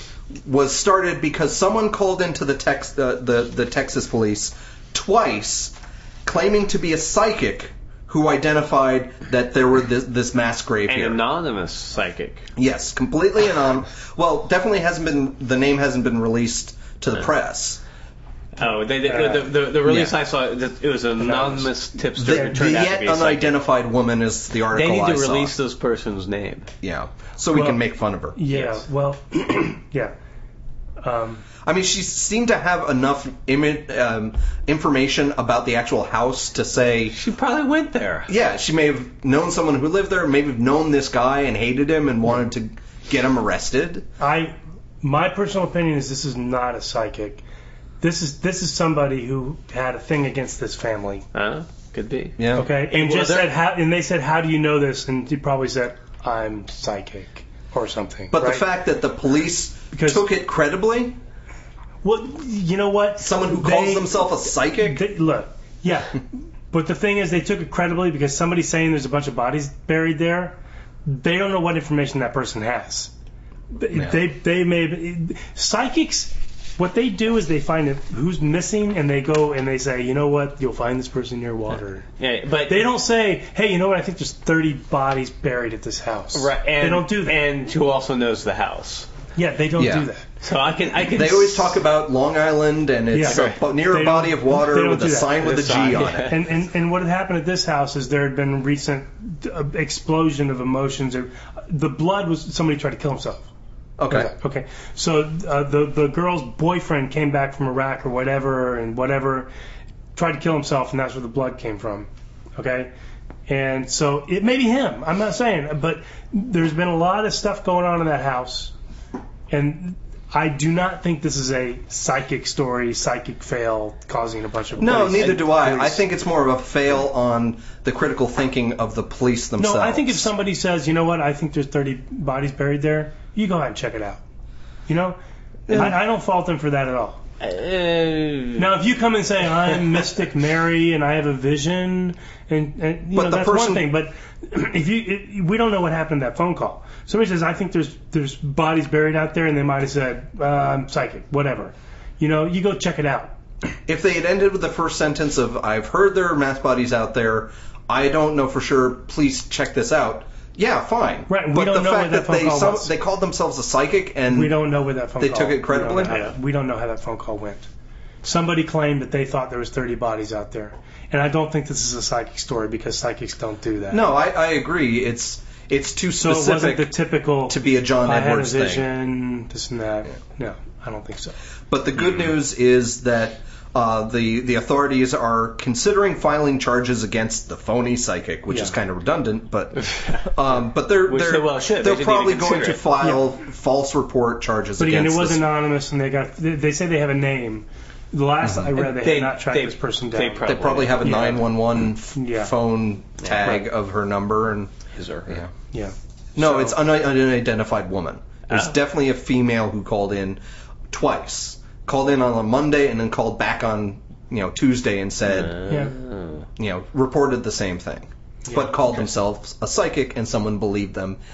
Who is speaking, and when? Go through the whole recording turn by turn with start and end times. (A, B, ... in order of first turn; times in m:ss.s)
0:00.4-0:11.2 A
0:10.9-0:12.5 B
0:12.6-0:17.8 A
0:18.6-0:23.6 B
0:19.0-0:19.5 C
0:19.8-0:20.1 A
0:21.2-0:21.7 C
0:22.2-0:25.5 A
0:22.3-0:22.6 C
0:24.7-0:26.7 B
0:26.8-0:28.4 A
0:27.5-0:27.8 C
0:28.3-0:30.1 C
0:28.5-0:28.8 B
0:31.0-0:31.4 C
0:31.6-0:37.1 A
0:37.1-0:38.3 B
0:38.3-0:44.0 A
0:44.2-0:47.4 C
0:48.0-0:51.2 C
0:51.3-0:53.5 B
0:52.4-0:52.7 A
0:52.5-0:58.6 C
0:58.3-1:01.2 A
0:59.9-1:00.3 C
1:02.0-1:13.1 C
1:03.2-1:05.0 A
1:13.7-1:22.1 C
1:13.9-1:14.2 A
1:22.2-1:22.9 B
1:22.7-1:27.4 C
1:26.3-1:29.1 B
1:29.4-1:30.2 C
1:29.8-1:30.1 A
1:30.4-1:31.8 B
1:31.1-1:36.3 A
1:33.1-1:35.4 C
1:33.2-1:33.6 B
1:35.4-1:36.4 B
1:36.2-1:43.5 C
1:44.0-1:44.3 A
1:44.1-1:49.5 C
1:50.1-1:52.9 C
1:53.5-1:58.7 C
1:59.5-2:06.0 C
2:04.8-2:10.3 A
2:09.6-2:14.2 C
2:14.9-2:15.2 C
2:15.7-2:16.0 A
2:15.7-2:17.2 C
2:17.4-2:18.7 B
2:18.6-2:33.3 C
2:23.1-2:23.9 A
2:33.9-2:44.6 A
2:41.3-2:42.9 C
2:44.3-2:47.7 C
2:45.2-2:46.2 A
2:48.2-2:54.0 C
2:53.9-2:56.9 A
2:56.2-3:01.4 C
2:57.5-2:58.9 A
3:01.7-3:15.4 A
3:08.5-3:08.7 C
3:09.8-3:10.3 B
3:11.0-3:12.9 B
3:14.8-3:20.5 C
3:18.7-3:21.4 B
3:20.4-3:24.7 A
3:21.0-3:21.4 C
3:22.1-3:22.5 C
3:23.2-3:23.6 B
3:25.0-3:25.4 B
3:25.7-3:26.8 C
3:26.4-3:30.4 A
3:30.9-3:35.6 A
3:35.3-3:36.4 B
3:35.7-3:35.9 C
3:36.6-3:41.2 A